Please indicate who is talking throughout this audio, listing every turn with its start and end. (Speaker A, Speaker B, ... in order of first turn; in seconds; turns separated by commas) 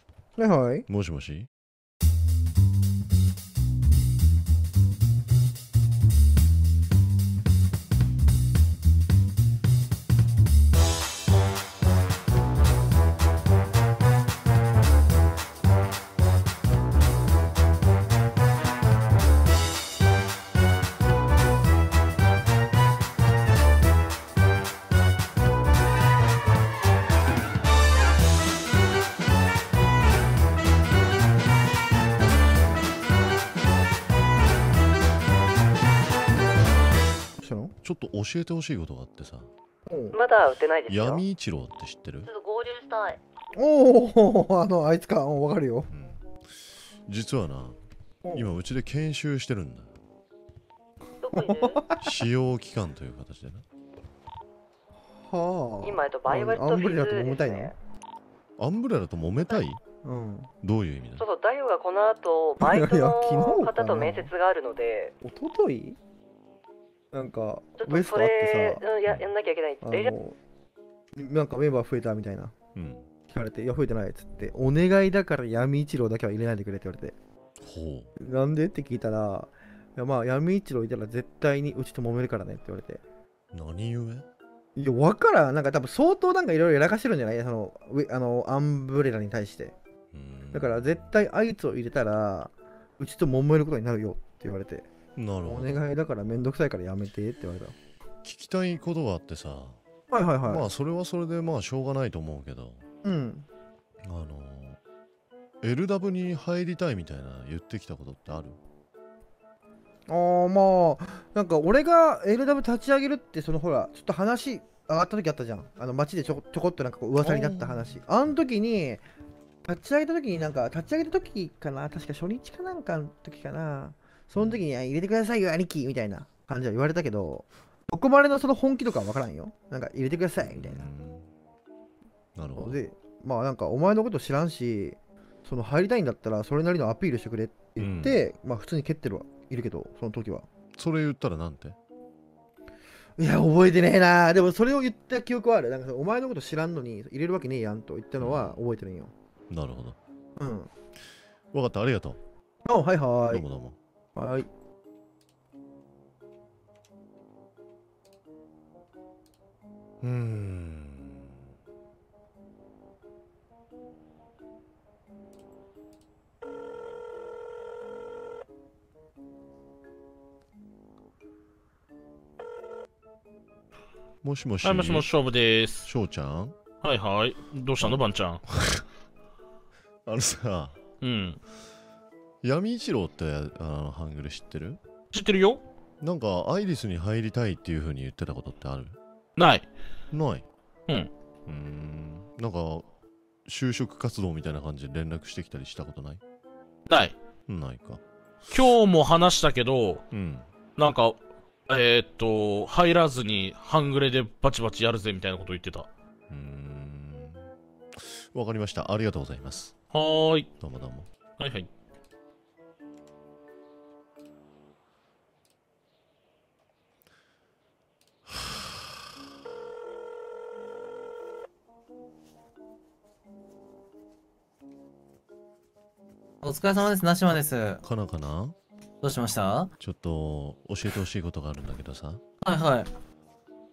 Speaker A: 0.3-0.9, Speaker B: 0.9-1.5, Speaker A: 37.4-37.7, Speaker B: 37.8-39.5, Speaker A: 39.9-40.2, Speaker C: 40.1-41.2, Speaker B: 40.9-42.3, Speaker C: 42.2-43.2, Speaker A: 43.5-45.9, Speaker B: 45.9-47.8, Speaker B: 48.3-49.9, Speaker C: 51.2-51.8, Speaker A: 51.3-51.8, Speaker B: 52.0-53.6, Speaker A: 55.2-57.7, Speaker C: 55.8-57.7, Speaker B: 58.6-59.8, Speaker A: 60.0-60.5, Speaker B: 60.6-61.2, Speaker C: 61.2-65.1, Speaker A: 62.6-64.3, Speaker A: 65.2-66.0, Speaker A: 67.1-68.8, Speaker C: 67.8-70.1, Speaker A: 69.8-70.4, Speaker A: 71.2-72.5, Speaker B: 72.7-73.1, Speaker A: 73.3-77.1, Speaker B: 77.6-78.1, Speaker A: 78.2-83.0, Speaker B: 83.5-84.3, Speaker A: 84.8-89.7, Speaker B: 90.1-91.1, Speaker A: 90.5-94.9, Speaker B: 95.2-95.8, Speaker A: 95.4-97.7, Speaker B: 98.2-99.8, Speaker A: 100.1-100.7, Speaker B: 100.4-102.8, Speaker A: 103.0-103.5, Speaker B: 104.0-104.8, Speaker B: 105.6-108.6, Speaker A: 110.1-119.0, Speaker B: 117.2-118.0, Speaker A: 119.6-130.8, Speaker B: 124.3-124.6, Speaker B: 130.4-131.3, Speaker B: 132.3-132.8, Speaker A: 132.6-140.4, Speaker B: 137.8-138.2, Speaker B: 140.8-141.8, Speaker A: 143.2-149.1, Speaker B: 148.2-148.6, Speaker B: 149.5-150.0, Speaker A: 150.4-150.7, Speaker B: 151.5-152.2, Speaker A: 152.6-153.4, Speaker B: 153.3-153.8, Speaker A: 154.2-154.5, Speaker B: 160.0-161.5, Speaker B: 174.2-175.1, Speaker D: 174.6-175.9, Speaker B: 175.8-176.6, Speaker D: 176.8-178.4, Speaker B: 177.8-178.8, Speaker B: 180.1-180.9, Speaker D: 181.0-181.4, Speaker B: 182.4-184.8, Speaker D: 185.1-185.6, Speaker B: 186.0-189.0, Speaker D: 189.4-189.7, Speaker B: 190.1-190.5, Speaker B: 191.4-192.9, Speaker B: 193.4-196.2, Speaker D: 196.9-197.2, Speaker B: 197.5-198.7, Speaker D: 198.5-200.0, Speaker B: 200.1-200.5, Speaker D: 200.8-205.9, Speaker B: 206.3-209.8, Speaker D: 209.9-210.5, Speaker B: 210.6-211.1, Speaker D: 211.4-211.7, Speaker B: 218.3-218.9, Speaker E: 226.4-227.8, Speaker B: 227.8-228.6, Speaker E: 229.0-229.7, Speaker B: 229.8-232.2, Speaker E: 232.4-232.9